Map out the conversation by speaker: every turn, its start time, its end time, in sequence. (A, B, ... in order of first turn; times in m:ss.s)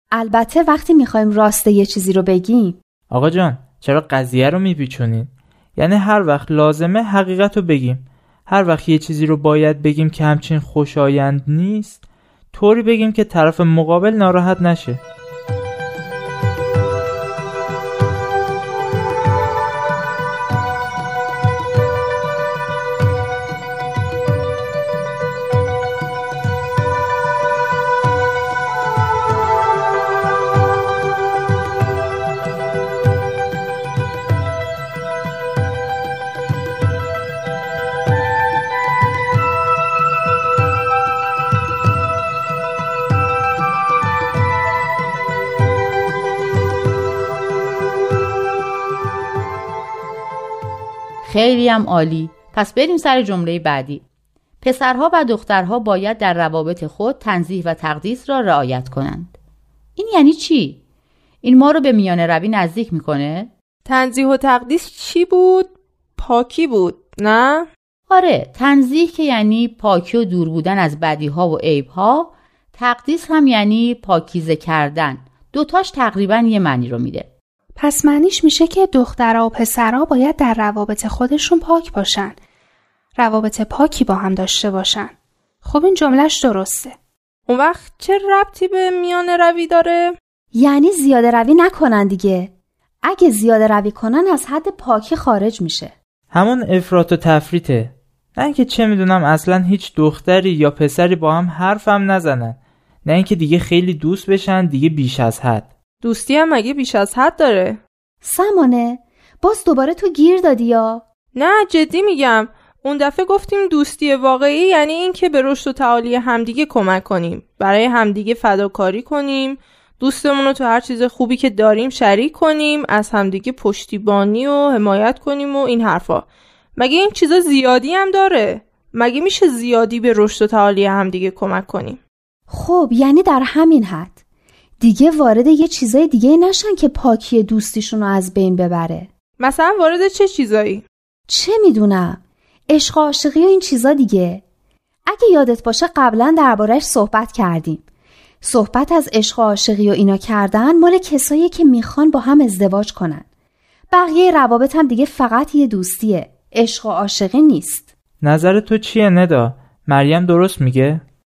0:00.1-0:02.8 A
0:03.1-0:12.0 B
0:12.5-0:15.0 B
0:51.2-0:54.0 C
0:54.6-0:59.3 C
1:00.0-1:00.8 C
1:01.4-1:03.5 C
1:03.9-1:07.7 D
1:08.1-1:17.3 C
1:17.8-1:22.4 E
1:23.2-1:27.0 E
1:27.5-1:30.2 D
1:30.5-1:32.5 A
1:33.0-1:35.9 A
1:36.3-1:45.7 B
1:46.0-1:47.8 D
1:48.2-1:51.0 A
1:51.4-2:12.0 D
2:12.5-2:14.2 A
2:14.8-2:19.1 A
2:19.4-2:20.8 D
2:21.3-2:24.4 A
2:25.1-2:27.8 A
2:28.4-2:33.2 A
2:33.9-2:37.9 A
2:38.2-2:41.0 B